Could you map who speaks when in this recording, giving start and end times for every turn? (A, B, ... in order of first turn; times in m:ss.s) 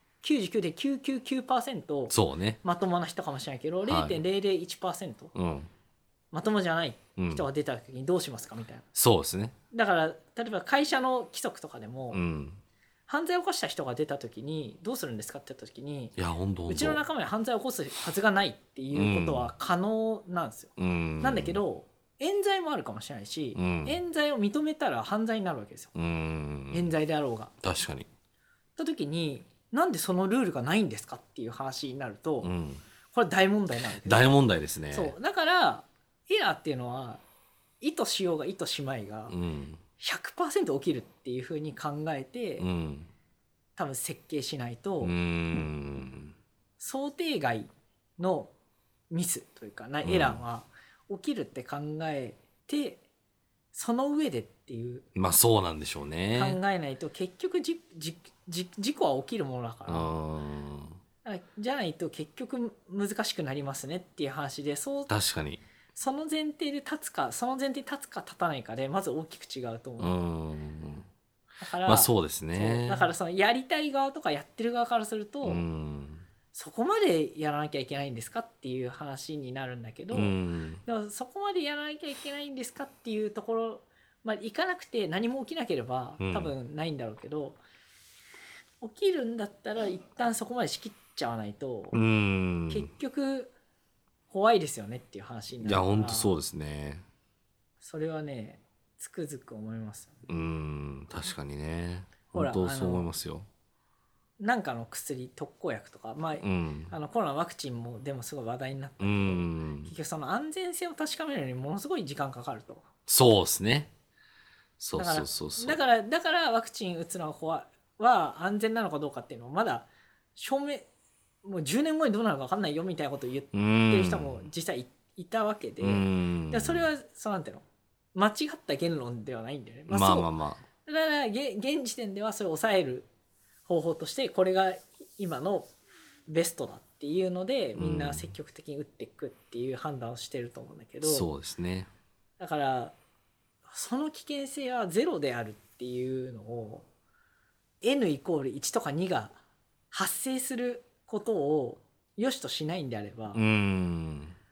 0:00.2-0:05.3 A
0:02.1-0:02.6 B
0:03.8-0:04.2 B
0:05.4-0:05.7 B
0:06.3-0:08.8 A
0:07.2-0:07.5 B
0:09.0-0:09.6 B
0:09.7-0:12.2 A
0:12.1-0:12.6 B
0:13.1-0:16.2 A
0:16.2-0:17.0 B
0:16.7-0:25.9 A
0:18.9-0:19.5 B
0:20.8-0:21.6 B
0:23.6-0:24.0 B
0:26.0-0:26.9 B
0:26.7-0:27.5 A
0:27.6-0:28.1 B
0:28.8-0:32.5 A
0:32.4-0:32.8 B
0:33.1-0:34.3 A
0:34.0-0:35.1 B
0:34.9-0:37.2 A
0:37.8-0:39.4 A
0:39.3-0:39.8 B
0:40.0-0:42.7 A
0:42.6-0:43.1 B
0:43.8-0:45.7 A
0:45.0-0:46.4 B
0:46.8-0:48.5 A
0:49.1-0:53.0 A
0:50.0-0:50.4 B
0:53.7-0:55.0 A
0:55.2-0:56.6 B
0:56.3-1:00.1 A
0:59.9-1:01.0 B
1:01.2-1:05.1 A
1:05.1-1:05.6 B
1:06.0-1:10.1 A
1:10.0-1:11.1 B
1:11.6-1:15.6 A
1:11.8-1:13.1 B
1:15.4-1:16.2 B
1:16.5-1:27.6 A
1:20.1-1:20.8 B
1:26.2-1:26.5 B
1:28.8-1:32.0 A
1:31.9-1:32.9 B
1:32.7-1:33.5 A
1:34.3-1:36.4 A
1:35.6-1:37.0 B
1:37.8-1:40.2 A
1:40.3-1:43.5 B
1:42.3-1:43.1 A
1:44.4-1:52.8 A
1:46.4-1:46.9 B
1:49.0-1:49.9 B
1:53.1-1:53.9 B
1:54.8-1:55.8 B
1:55.0-2:00.9 A
2:01.4-2:07.6 A
2:03.5-2:04.4 B
2:05.8-2:06.9 B
2:08.2-2:10.3 A
2:09.9-2:10.6 B
2:10.8-2:13.1 A
2:13.7-2:15.7 A
2:16.3-2:21.3 A
2:17.8-2:18.3 B
2:21.0-2:21.9 B
2:22.4-2:22.9 A
2:23.7-2:26.8 A
2:27.8-2:29.4 A
2:29.9-2:33.4 A
2:33.3-2:34.4 B